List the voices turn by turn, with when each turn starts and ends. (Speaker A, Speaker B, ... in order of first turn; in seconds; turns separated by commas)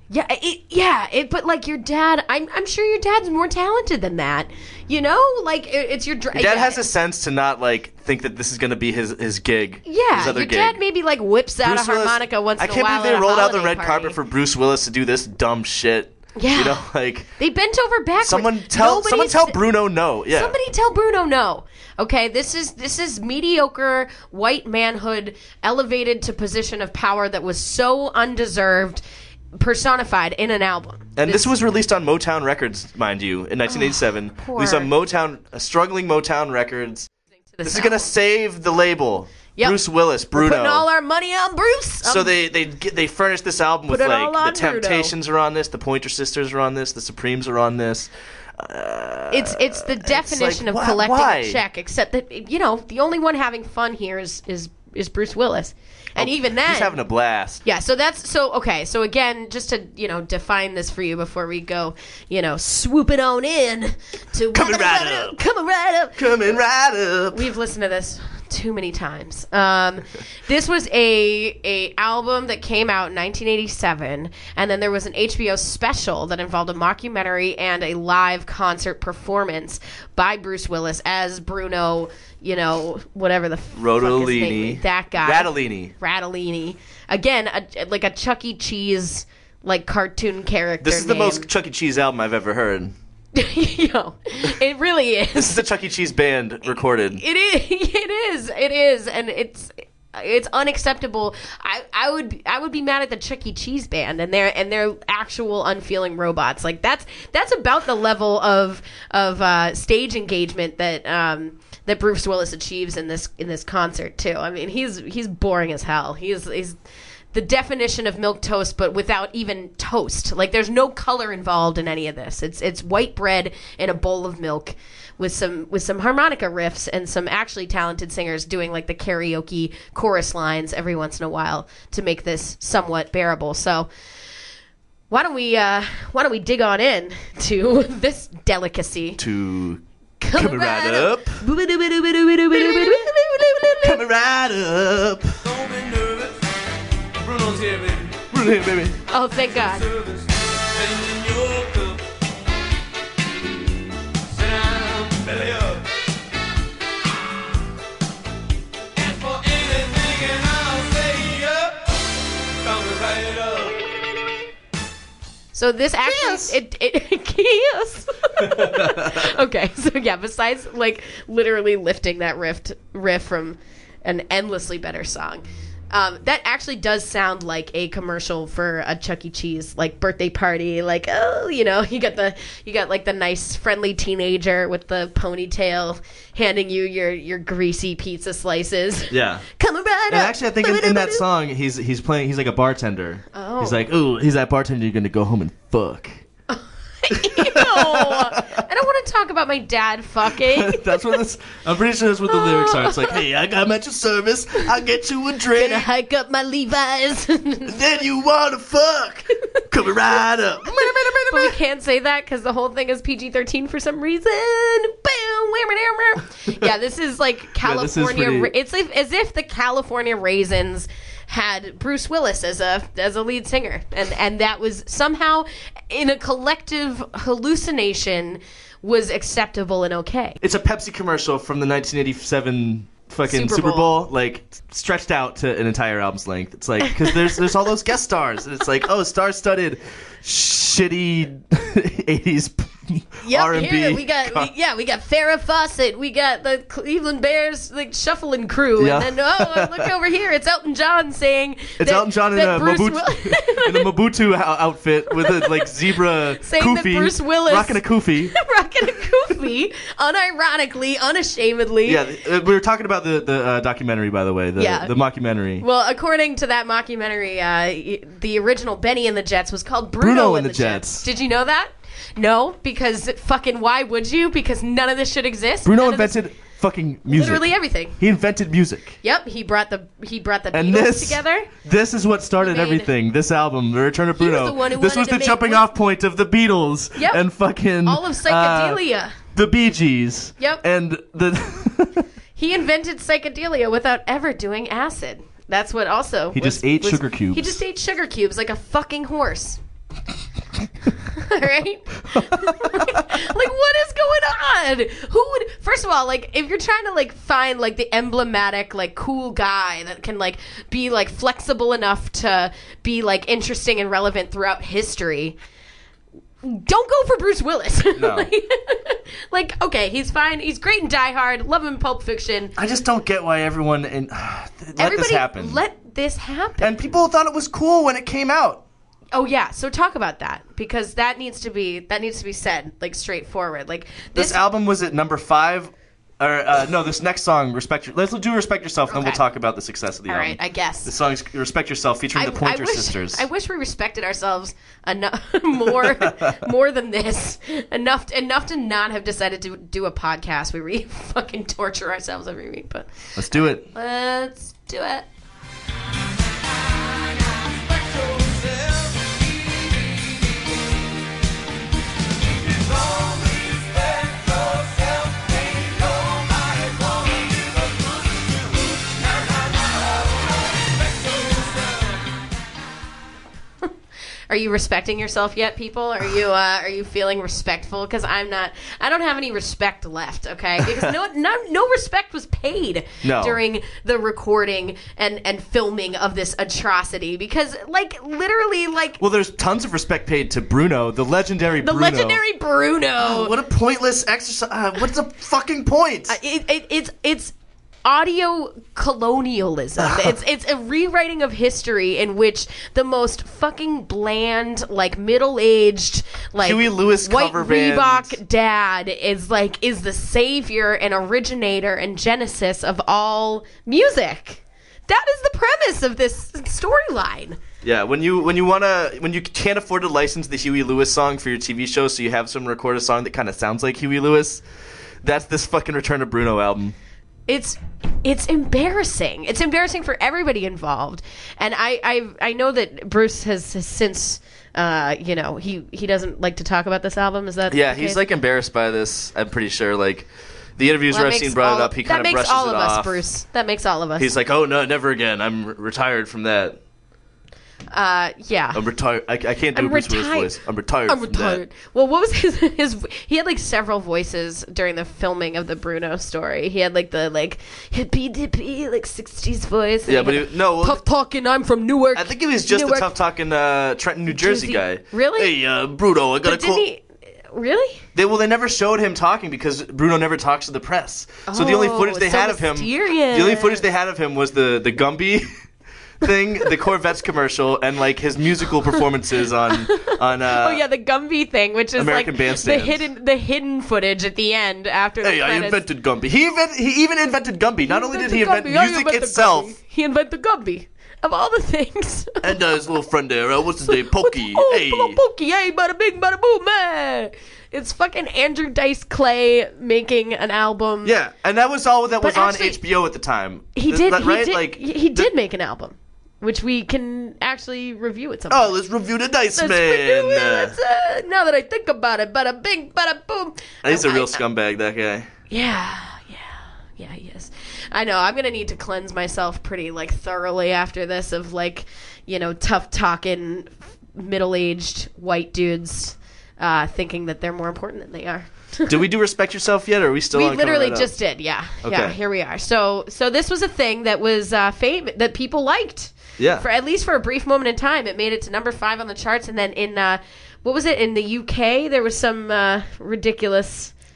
Speaker A: 0.1-6.8, Speaker B: 6.3-10.8, Speaker A: 9.8-14.2, Speaker B: 11.6-17.3, Speaker A: 16.4-16.9, Speaker A: 17.4-19.6, Speaker B: 18.2-20.5, Speaker A: 20.3-29.0, Speaker A: 29.6-31.5, Speaker B: 31.2-37.1, Speaker A: 33.7-34.9, Speaker A: 37.5-38.1, Speaker B: 37.6-40.9, Speaker A: 40.3-42.4, Speaker B: 42.0-51.6, Speaker A: 43.9-45.1, Speaker A: 49.3-57.0, Speaker B: 56.2-57.6, Speaker A: 57.6-66.3, Speaker B: 64.5-65.4, Speaker B: 66.2-67.5, Speaker A: 67.3-91.5, Speaker B: 83.8-85.9, Speaker B: 90.8-93.0, Speaker A: 93.3-95.6, Speaker B: 95.3-97.2, Speaker A: 97.1-116.8, Speaker A: 117.3-133.9, Speaker A: 135.1-139.2, Speaker B: 139.2-139.8, Speaker A: 140.2-144.0, Speaker B: 140.3-141.4, Speaker B: 142.5-143.1, Speaker B: 143.8-145.4, Speaker C: 145.4-146.4, Speaker C: 147.2-148.3, Speaker B: 148.3-149.0, Speaker A: 149.1-149.9, Speaker C: 149.6-152.0, Speaker C: 154.3-155.8, Speaker C: 159.0-161.8, Speaker C: 162.6-163.8, Speaker A: 165.5-191.2, Speaker B: 166.0-166.6, Speaker B: 168.4-169.3, Speaker B: 189.1-189.4, Speaker B: 190.1-196.2, Speaker A: 193.3-193.8, Speaker A: 196.5-201.2, Speaker B: 197.1-198.7, Speaker B: 200.3-205.9, Speaker A: 202.3-203.2, Speaker A: 205.5-207.8, Speaker B: 207.7-211.6, Speaker A: 210.7-230.4, Speaker B: 217.6-218.5, Speaker B: 230.4-244.5, Speaker A: 233.2-234.0, Speaker A: 243.2-253.9, Speaker B: 248.8-249.9, Speaker B: 251.8-258.4, Speaker A: 255.2-255.6, Speaker A: 256.4-262.0, Speaker B: 261.9-265.7, Speaker A: 264.6-264.9, Speaker A: 265.6-276.2, Speaker B: 270.0-271.1, Speaker B: 275.6-279.0, Speaker A: 277.1-278.0, Speaker A: 279.0-281.5, Speaker B: 280.5-288.8, Speaker A: 282.4-282.9, Speaker A: 284.2-285.7, Speaker A: 287.0-287.2, Speaker A: 287.8-289.2, Speaker B: 289.3-292.1, Speaker A: 292.4-299.6, Speaker B: 296.3-297.6, Speaker A: 301.0-315.4, Speaker B: 302.1-303.2, Speaker A: 316.4-322.6, Speaker B: 318.0-318.3, Speaker B: 322.6-325.6, Speaker A: 324.8-326.9, Speaker B: 326.6-328.6, Speaker A: 329.1-334.4, Speaker B: 334.1-343.3, Speaker A: 338.9-339.2, Speaker A: 340.1-340.9, Speaker A: 342.1-355.1, Speaker B: 345.8-346.4, Speaker B: 353.2-353.7, Speaker C: 357.3-360.7, Speaker C: 362.3-372.1, Speaker A: 374.3-389.0, Speaker B: 380.6-380.9, Speaker B: 383.0-383.4, Speaker B: 389.0-392.2, Speaker A: 391.6-393.4, Speaker B: 393.0-396.2, Speaker A: 396.1-397.3, Speaker A: 397.9-417.4, Speaker B: 399.8-400.1, Speaker B: 406.4-408.2, Speaker B: 417.6-424.4, Speaker B: 425.0-426.8, Speaker A: 427.3-438.0, Speaker B: 437.5-443.0, Speaker A: 440.9-444.1, Speaker B: 444.0-446.6, Speaker A: 447.7-448.7, Speaker B: 448.5-451.4, Speaker A: 449.5-450.3, Speaker A: 450.9-462.9, Speaker B: 459.9-460.8, Speaker B: 461.9-466.7, Speaker A: 464.1-465.4, Speaker A: 466.2-467.9, Speaker B: 467.9-475.3, Speaker A: 471.3-473.6, Speaker B: 476.0-480.6, Speaker A: 479.5-485.6, Speaker B: 481.8-482.8, Speaker B: 485.0-489.5, Speaker A: 487.7-492.3, Speaker B: 492.2-495.0, Speaker A: 493.6-500.9, Speaker B: 500.8-505.1, Speaker A: 502.0-502.6, Speaker A: 503.6-508.6, Speaker B: 508.3-510.6, Speaker A: 509.4-514.2, Speaker B: 513.6-515.1, Speaker A: 515.3-528.8, Speaker B: 528.7-530.9, Speaker A: 530.1-543.7, Speaker B: 531.6-532.0, Speaker B: 536.2-536.4